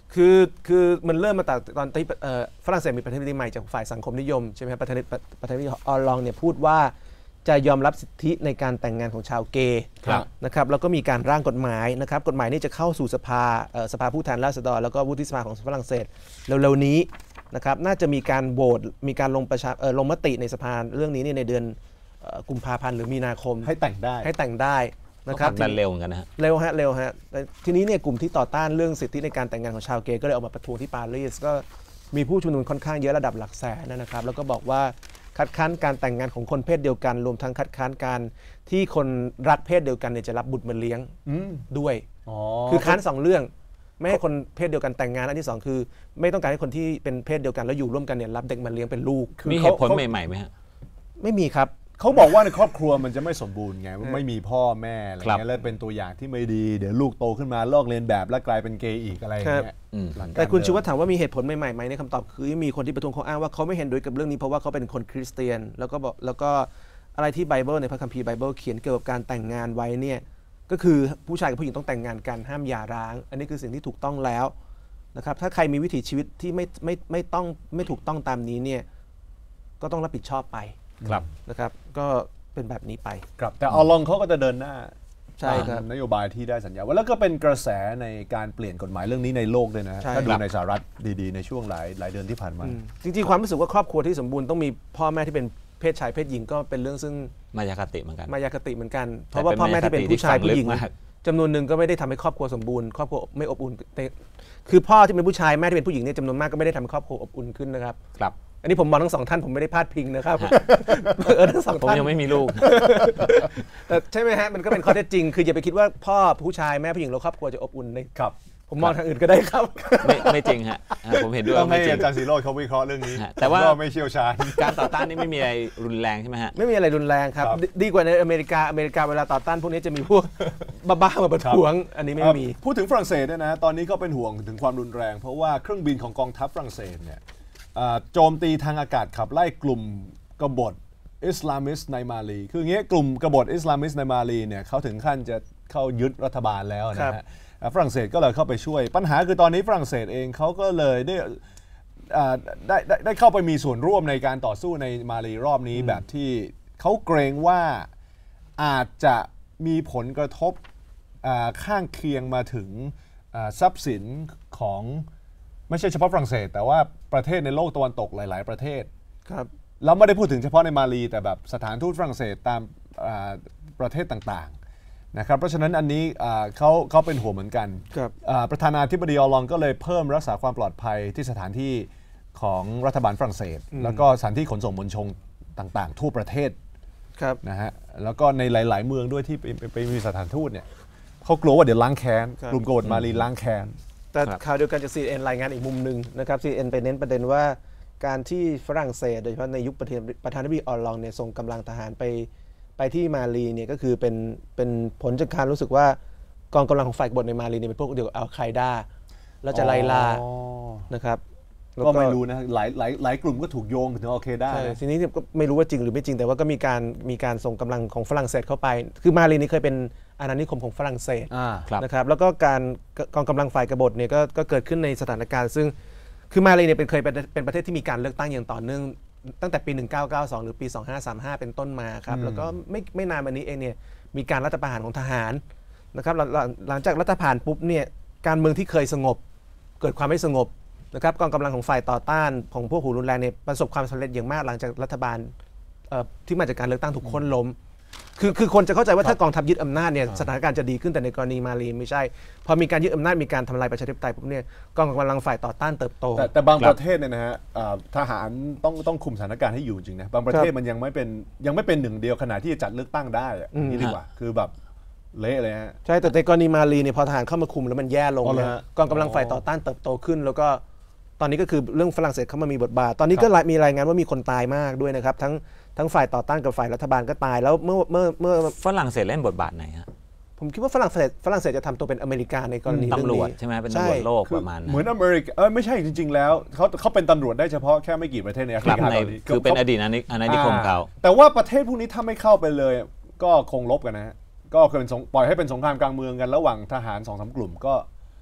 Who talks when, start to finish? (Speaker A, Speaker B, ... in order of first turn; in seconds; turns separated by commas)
Speaker A: 0.1-6.9, Speaker A: 7.5-25.8, Speaker B: 23.6-24.3, Speaker C: 25.3-26.3, Speaker A: 26.4-41.1, Speaker B: 41.3-41.6, Speaker A: 41.7-42.1, Speaker B: 42.3-43.0, Speaker A: 42.7-49.4, Speaker B: 49.4-50.0, Speaker C: 49.5-50.5, Speaker A: 51.2-51.8, Speaker B: 52.0-60.8, Speaker A: 59.4-59.7, Speaker C: 59.9-60.4, Speaker A: 60.4-74.5, Speaker A: 75.2-78.9, Speaker A: 79.8-80.8, Speaker A: 81.5-83.3, Speaker B: 83.4-92.8, Speaker A: 85.4-85.9, Speaker A: 90.0-90.3, Speaker A: 92.6-97.3, Speaker C: 97.5-98.3, Speaker A: 98.3-108.0, Speaker C: 99.3-100.9, Speaker A: 108.6-118.1, Speaker C: 111.7-113.2, Speaker A: 118.7-120.5, Speaker C: 120.0-122.1, Speaker B: 121.5-125.1, Speaker C: 123.1-123.8, Speaker C: 124.5-126.5, Speaker A: 126.5-132.6, Speaker B: 132.2-137.2, Speaker B: 137.7-151.4, Speaker B: 152.1-157.9, Speaker B: 158.6-160.6, Speaker B: 161.2-165.1, Speaker B: 165.7-168.9, Speaker B: 169.8-174.6, Speaker B: 175.1-186.6, Speaker A: 183.7-184.1, Speaker B: 187.4-190.7, Speaker B: 191.2-193.8, Speaker C: 192.8-193.2, Speaker A: 194.1-206.0, Speaker A: 206.5-208.9, Speaker A: 209.4-210.2, Speaker B: 209.5-210.9, Speaker A: 210.9-211.2, Speaker A: 211.8-212.2, Speaker B: 211.8-214.8, Speaker A: 214.5-225.7, Speaker B: 221.3-221.7, Speaker A: 226.3-235.4, Speaker B: 232.1-232.5, Speaker A: 235.9-239.2, Speaker A: 239.8-245.3, Speaker A: 245.9-247.6, Speaker A: 248.2-256.3, Speaker B: 256.1-264.5, Speaker A: 263.5-263.9, Speaker B: 265.1-265.8, Speaker A: 265.9-270.6, Speaker B: 268.2-269.4, Speaker A: 271.2-278.6, Speaker C: 278.6-279.9, Speaker A: 280.4-284.1, Speaker C: 282.7-284.8, Speaker B: 284.2-289.6, Speaker C: 288.6-290.9, Speaker B: 290.2-297.9